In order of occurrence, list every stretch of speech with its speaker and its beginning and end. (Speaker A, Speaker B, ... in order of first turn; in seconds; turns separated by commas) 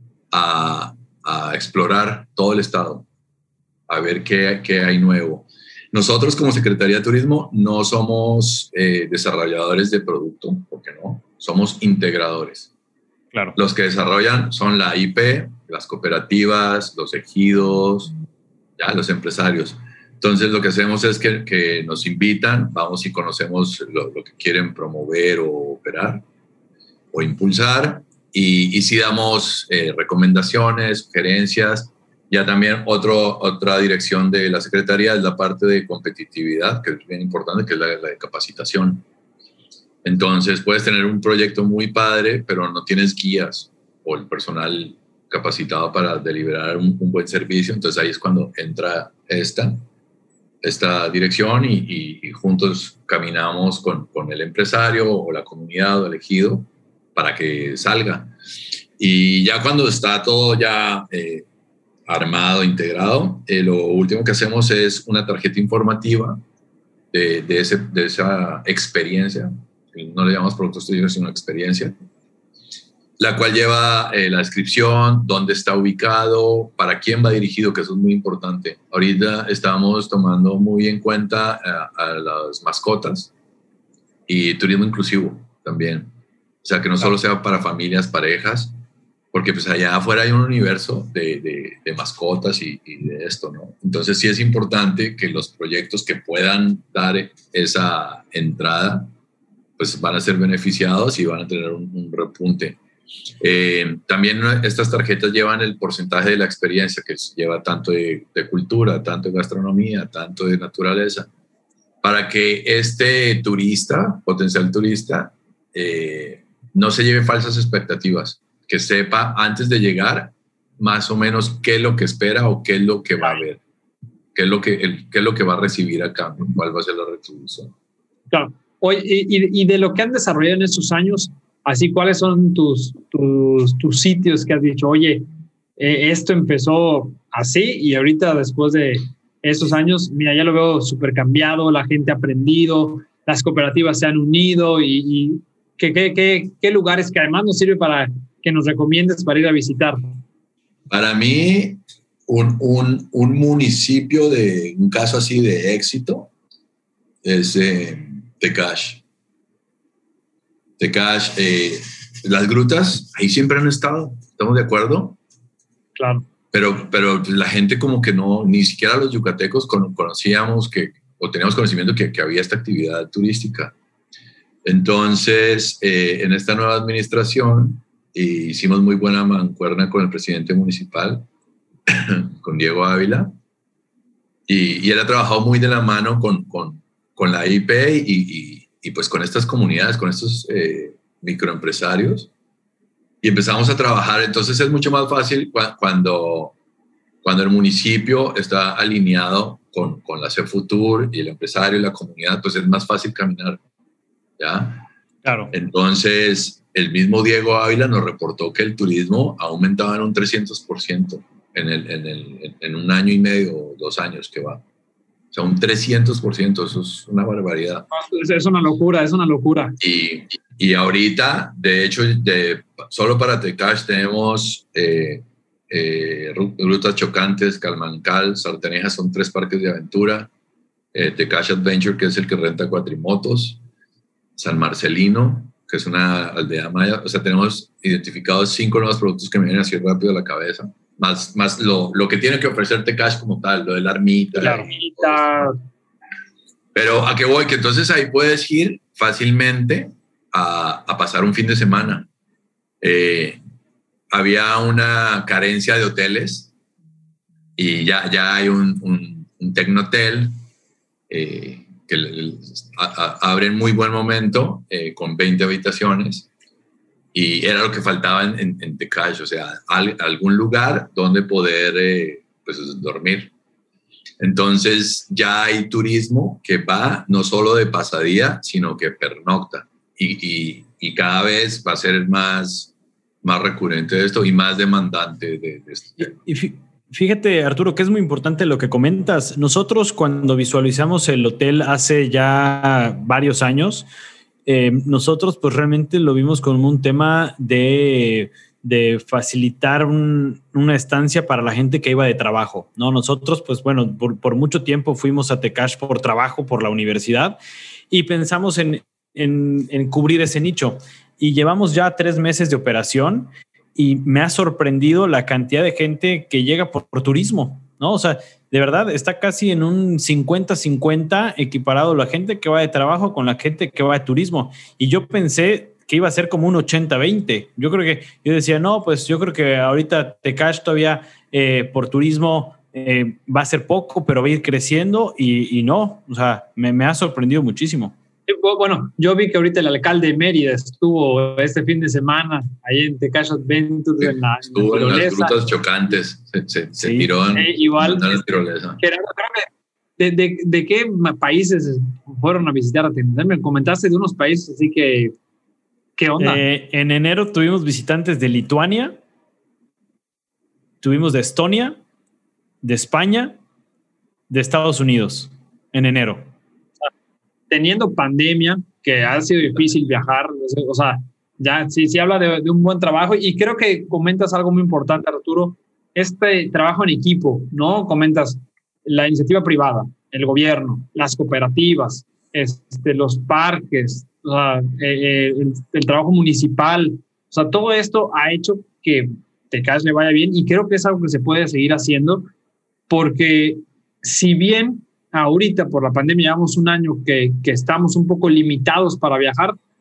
Speaker A: 0.3-3.1, Speaker A: 3.9-12.7, Speaker A: 13.6-18.1, Speaker A: 18.8-26.2, Speaker A: 27.1-39.0, Speaker A: 40.0-49.8, Speaker A: 50.6-58.3, Speaker A: 59.0-61.5, Speaker A: 62.1-66.4, Speaker A: 67.1-72.0, Speaker A: 73.2-83.3, Speaker A: 84.3-86.1, Speaker A: 86.6-88.7, Speaker A: 89.3-99.1, Speaker A: 99.8-102.8, Speaker A: 103.4-111.3, Speaker A: 112.0-123.6, Speaker A: 124.3-127.7, Speaker B: 128.3-135.2, Speaker B: 135.8-150.0, Speaker A: 150.9-156.3, Speaker A: 157.2-159.0, Speaker A: 160.8-165.2, Speaker B: 165.9-166.2, Speaker A: 166.5-173.7, Speaker A: 174.6-181.3, Speaker A: 181.9-183.3, Speaker A: 184.5-192.3, Speaker A: 193.2-196.6, Speaker A: 197.2-203.6, Speaker A: 204.4-204.9, Speaker C: 205.2-205.5, Speaker A: 205.5-214.6, Speaker A: 215.3-217.9, Speaker B: 217.9-219.8, Speaker A: 219.8-230.3, Speaker A: 230.9-233.6, Speaker A: 234.4-245.3, Speaker B: 244.4-245.6, Speaker C: 244.4-244.7, Speaker A: 246.7-252.1, Speaker A: 252.8-253.4, Speaker A: 254.1-256.5, Speaker A: 257.6-260.4, Speaker A: 261.1-266.3, Speaker A: 267.1-273.3, Speaker A: 274.2-286.1, Speaker C: 286.2-293.9, Speaker C: 294.4-307.4, Speaker C: 307.9-337.9, Speaker B: 338.3-345.4, Speaker A: 344.0-348.8, Speaker C: 346.8-347.1, Speaker B: 347.3-348.2, Speaker B: 348.8-355.1, Speaker B: 356.0-356.4, Speaker C: 356.2-359.0, Speaker C: 360.8-361.8, Speaker C: 362.6-363.4, Speaker C: 364.3-366.3, Speaker B: 367.5-392.3, Speaker B: 392.9-399.6